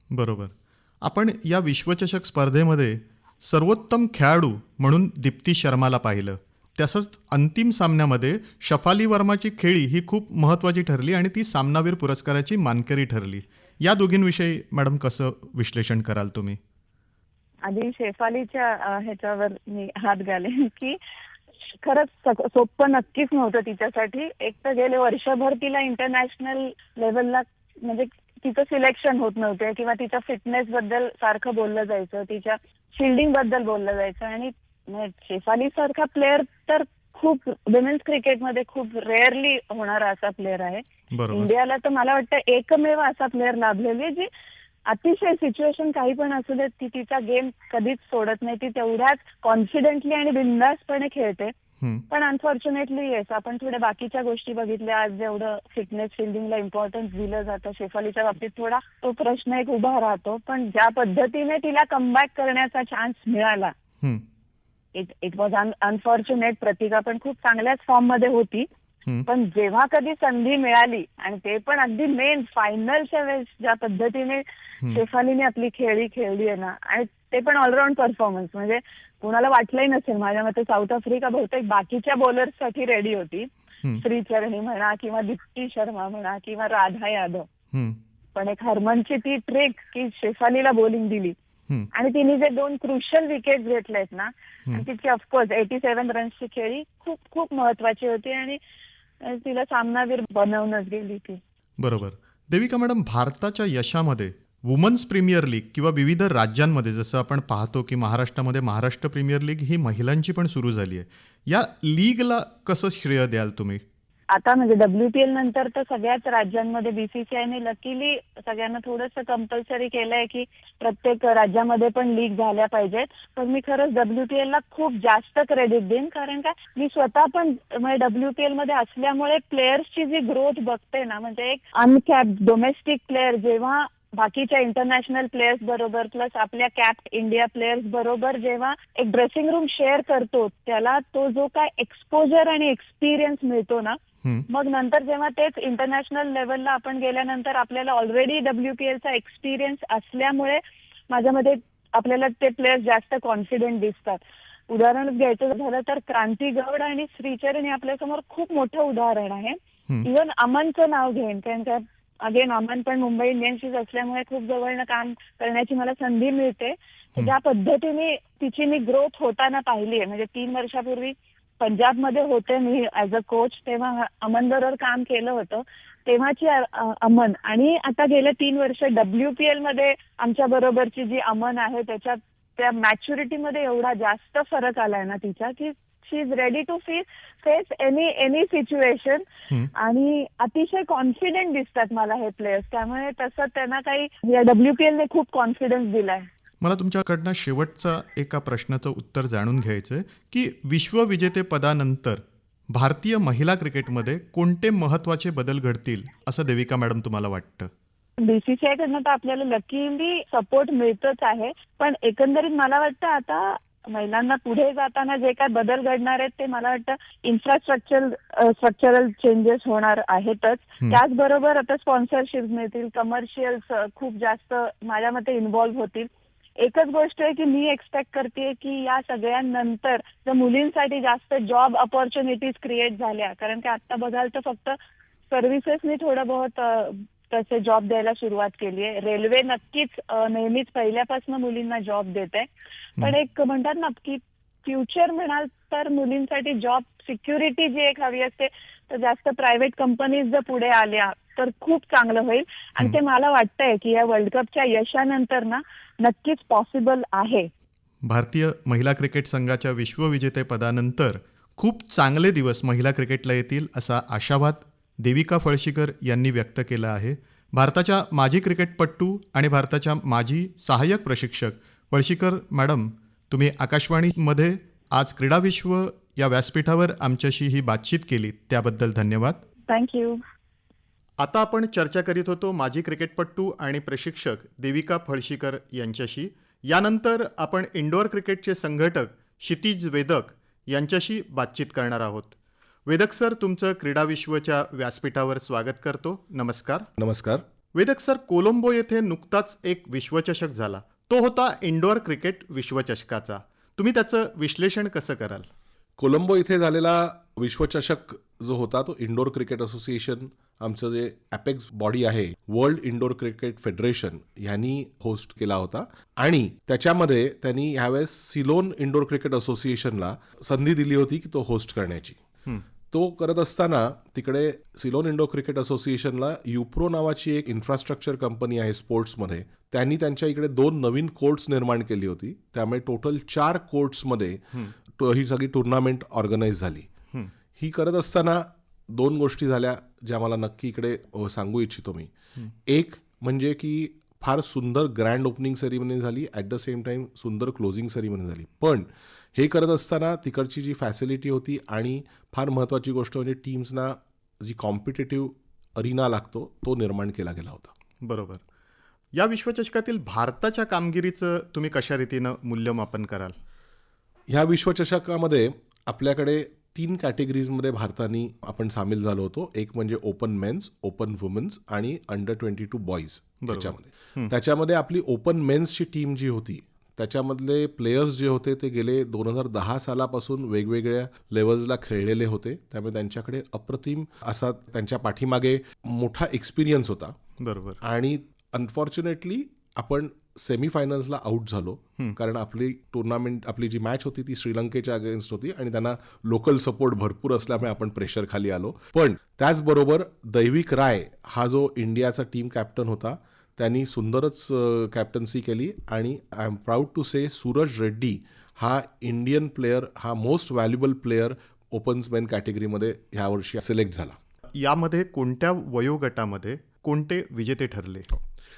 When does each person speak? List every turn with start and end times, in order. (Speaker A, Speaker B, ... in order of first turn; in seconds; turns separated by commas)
Speaker A: 0.1-16.6, Speaker B: 17.6-21.0, Speaker B: 21.7-44.3, Speaker A: 41.1-41.5, Speaker B: 44.9-51.5, Speaker B: 52.1-63.7, Speaker B: 65.0-68.7, Speaker B: 69.3-87.5, Speaker A: 87.7-88.0, Speaker B: 88.3-91.4, Speaker B: 91.9-98.6, Speaker B: 99.2-101.4, Speaker A: 101.8-113.8, Speaker B: 114.3-196.3, Speaker A: 196.6-207.7, Speaker B: 208.2-234.8, Speaker B: 235.3-257.5, Speaker A: 258.0-279.4, Speaker B: 279.7-280.2, Speaker A: 281.2-292.4, Speaker A: 292.9-296.9, Speaker C: 297.0-297.4, Speaker A: 297.7-305.5, Speaker C: 306.0-322.2, Speaker C: 322.9-336.9, Speaker C: 337.6-342.1, Speaker C: 342.7-357.7, Speaker A: 358.0-358.4, Speaker A: 359.1-363.4, Speaker C: 364.3-387.2, Speaker A: 373.4-374.3, Speaker A: 387.4-387.8, Speaker C: 387.8-414.2, Speaker A: 414.5-418.1